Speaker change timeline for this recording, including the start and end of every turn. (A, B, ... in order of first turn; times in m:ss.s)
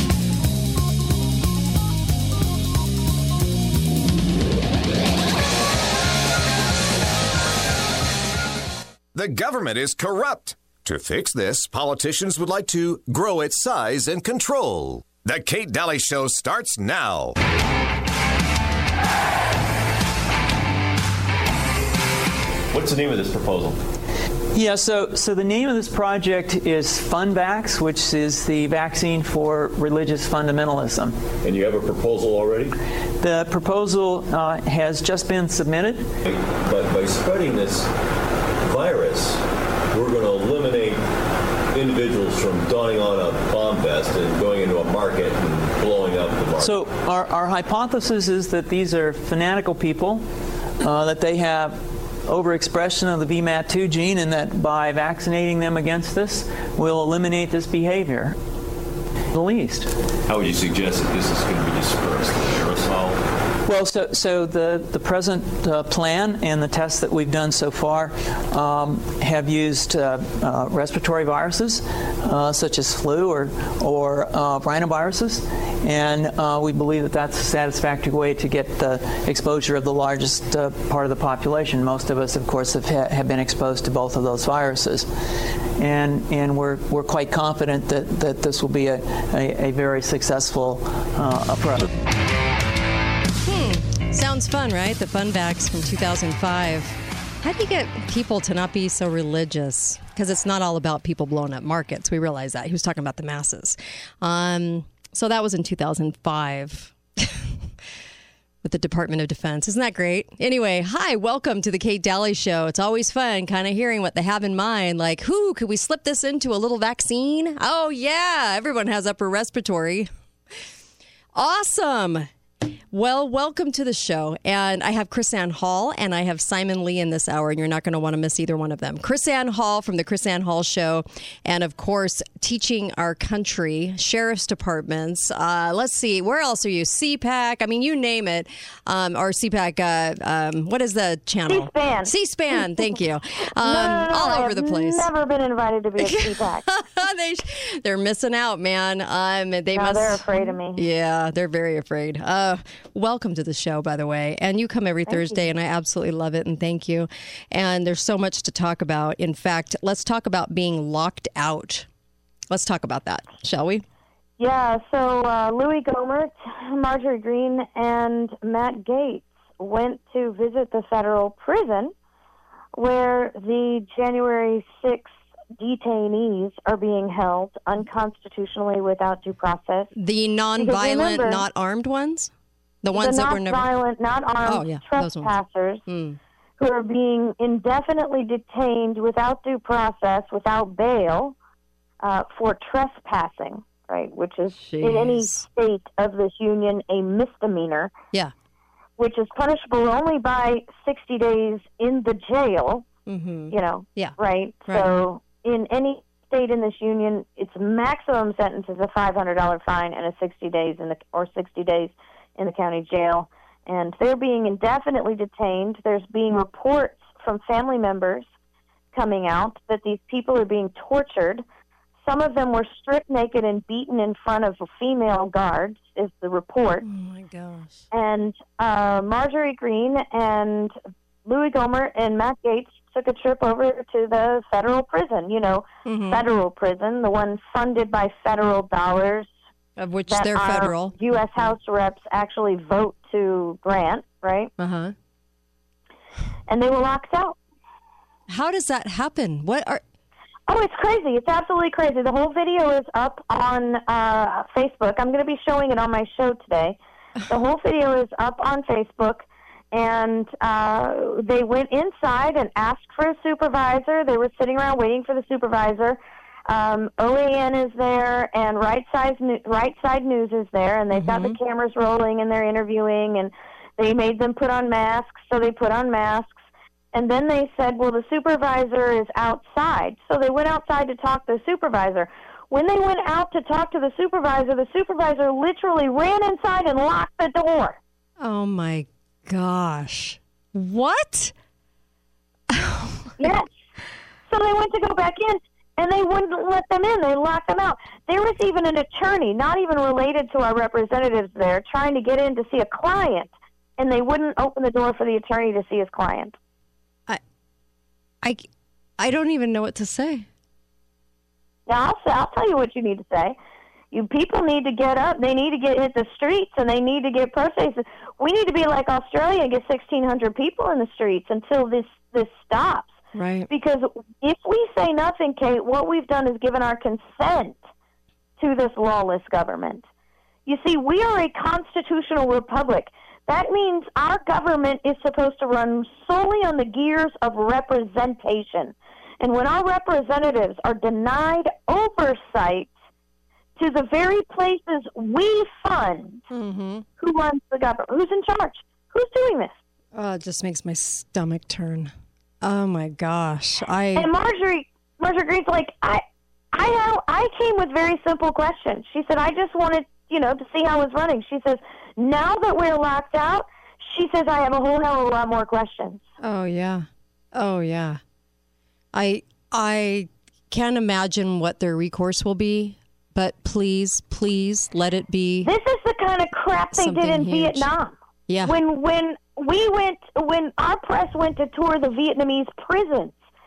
0:09.1-0:17.4 A
0:22.7-0:23.8 B
0:24.5-0:31.1 C
0:31.4-0:32.7 B
0:33.2-0:36.1 C
0:36.2-0:37.9 B
0:38.6-0:39.4 B
0:39.9-0:41.0 B
0:41.7-0:46.7 B
0:46.6-0:50.2 C
0:50.8-0:58.4 C
0:59.3-0:59.9 C
1:00.3-1:03.2 B
1:03.7-1:25.1 C
1:25.8-1:31.9 C
1:33.4-1:47.6 D
1:48.6-2:00.1 D
2:01.4-2:02.3 D
2:02.9-2:25.1 D
2:21.5-2:22.8 E
2:23.6-2:26.7 E
2:26.0-2:41.9 D
2:29.7-2:30.8 E
2:35.1-2:35.4 E
2:42.5-2:43.8 D
2:44.4-2:51.9 E
2:52.7-2:59.9 E
2:59.9-3:02.3 D
3:00.6-3:01.4 E
3:02.8-3:03.7 D
3:02.9-3:05.8 E
3:04.4-3:05.3 D
3:05.9-3:06.2 D
3:06.6-3:11.4 E
3:12.0-3:17.9 E
3:14.5-3:15.4 D
3:19.0-3:22.9 E
3:23.1-3:24.2 D
3:23.5-3:38.3 E
3:38.9-3:41.4 E
3:42.0-3:46.8 E
3:46.8-3:47.8 D
3:47.9-3:50.7 E
3:51.3-3:59.3 E
3:55.8-3:56.2 D
3:59.8-4:01.0 D
4:00.1-4:04.5 E
4:04.6-4:04.9 D
4:06.5-4:07.4 E
4:08.3-4:09.8 D
4:10.5-4:36.4 E
4:30.9-4:31.4 D
4:36.9-4:47.8 E
4:48.2-4:51.3 D
4:52.5-4:53.3 D
4:53.2-4:53.5 E
4:54.3-5:06.4 E
5:08.2-5:08.5 D
5:09.0-5:10.3 D
5:11.7-5:13.4 E
5:13.9-5:22.9 E
5:23.1-5:23.5 D
5:23.5-5:27.6 E
5:28.4-5:29.8 E
5:30.5-5:42.7 E
5:43.6-5:46.2 E
5:46.3-5:46.8 D
5:47.0-5:49.6 E
5:49.9-5:54.1 D
5:54.0-6:06.0 E
6:06.2-6:08.0 D
6:08.9-6:15.5 D
6:15.4-6:23.2 E
6:16.8-6:17.7 D
6:18.3-6:18.6 D